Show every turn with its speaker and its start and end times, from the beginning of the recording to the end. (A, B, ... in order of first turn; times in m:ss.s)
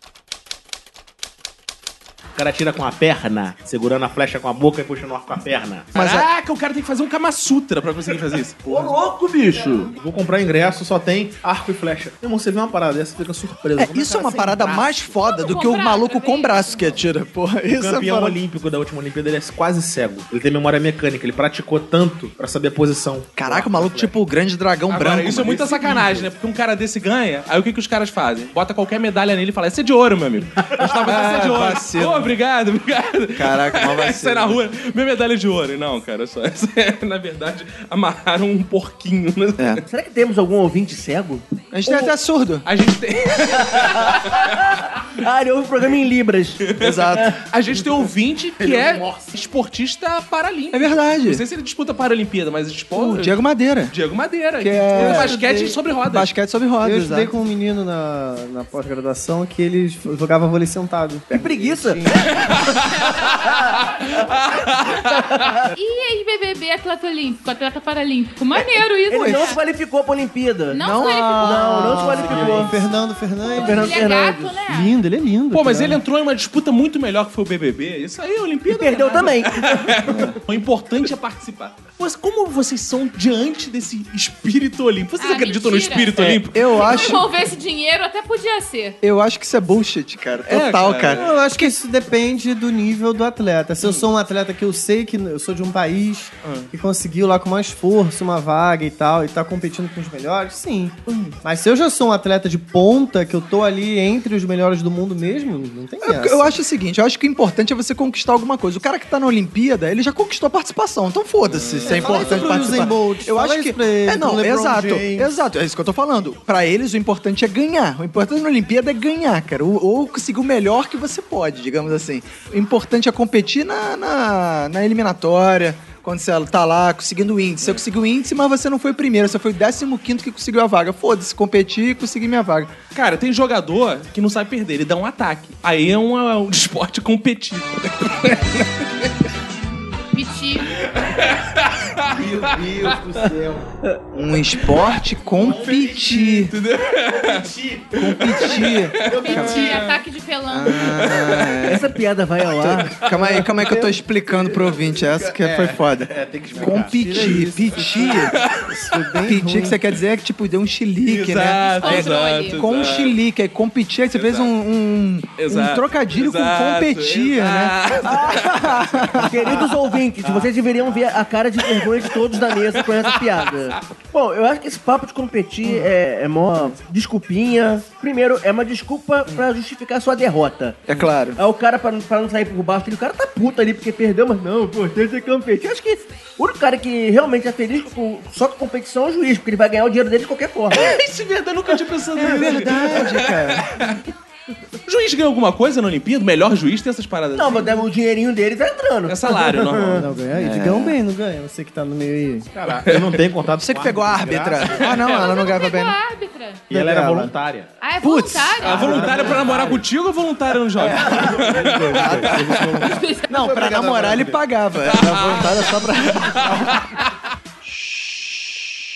0:02.3-0:05.9 A
0:05.9-0:06.3 B
0:05.9-0:08.9 C
0:08.7-0:09.9 D
0:09.9-0:15.1 A
0:13.8-0:18.4 B
0:15.2-0:16.9 E
0:17.7-0:24.1 A
0:23.4-0:26.2 B
0:24.9-0:39.8 C
0:25.7-0:26.1 A
0:30.8-0:31.2 D
0:31.0-0:32.3 B
0:33.3-0:34.6 B
0:39.9-0:42.1 D
0:41.7-0:42.6 B
0:42.6-0:44.6 C
0:43.5-0:47.4 D
0:46.7-0:53.4 C
0:46.8-0:47.3 B
0:48.6-0:49.3 A
0:50.7-0:51.4 B
0:52.9-0:53.9 B
0:53.9-0:56.3 C
0:54.6-0:57.3 B
0:56.8-1:02.4 F
1:01.3-1:04.3 D
1:02.4-1:05.5 C
1:04.9-1:05.7 D
1:05.7-1:09.6 E
1:08.6-1:10.8 D
1:10.7-1:11.8 E
1:10.8-1:12.0 B
1:11.3-1:12.8 D
1:11.6-1:16.0 F
1:12.0-1:12.9 A
1:13.4-1:14.6 D
1:13.7-1:14.9 E
1:15.5-1:27.1 C
1:18.7-1:20.3 D
1:20.0-1:20.4 B
1:25.2-1:29.0 E
1:26.2-1:27.3 B
1:29.0-1:31.8 B
1:30.4-1:31.3 C
1:31.1-1:46.5 F
1:33.8-1:34.1 C
1:36.4-1:36.7 C
1:41.1-1:41.4 C
1:46.0-2:12.7 B
1:51.4-1:52.9 C
1:51.8-1:55.3 F
2:12.9-2:19.1 C
2:20.1-2:20.8 E
2:20.7-2:23.0 C
2:22.1-2:23.7 A
2:24.1-2:26.5 B
2:25.3-2:26.5 A
2:26.0-2:29.3 C
2:27.2-2:30.0 A
2:28.0-2:29.7 B
2:29.1-2:31.3 E
2:30.5-2:31.9 B
2:30.7-2:31.8 C
2:31.6-2:33.6 D
2:32.5-2:38.4 B
2:32.8-2:33.4 C
2:34.5-2:37.4 A
2:36.6-2:39.8 F
2:38.3-2:39.0 C
2:39.2-2:49.6 B
2:41.0-2:43.2 C
2:41.8-2:42.6 E
2:44.1-2:44.5 C
2:45.4-2:49.7 C
2:48.0-2:48.4 D
2:49.2-3:00.8 D
2:50.2-2:50.5 C
2:51.6-2:53.8 C
3:00.9-3:01.4 B
3:01.4-3:11.0 D
3:10.7-3:14.0 C
3:12.2-3:13.7 B
3:14.8-3:17.8 C
3:17.3-3:20.0 D
3:19.1-3:20.1 C
3:20.0-3:22.5 F
3:20.3-3:21.0 B
3:22.5-3:25.0 A
3:22.8-3:23.2 C
3:23.6-3:26.0 B
3:24.8-3:25.3 C
3:24.8-3:26.6 E
3:26.7-3:27.7 A
3:26.7-3:27.3 F
3:27.8-3:28.9 E
3:28.0-3:28.7 B
3:28.6-3:32.8 C
3:28.7-3:29.8 A
3:28.7-3:29.8 F
3:30.8-3:34.4 A
3:30.8-3:31.2 B
3:32.0-3:36.9 B
3:32.8-3:33.5 E
3:34.9-3:37.0 C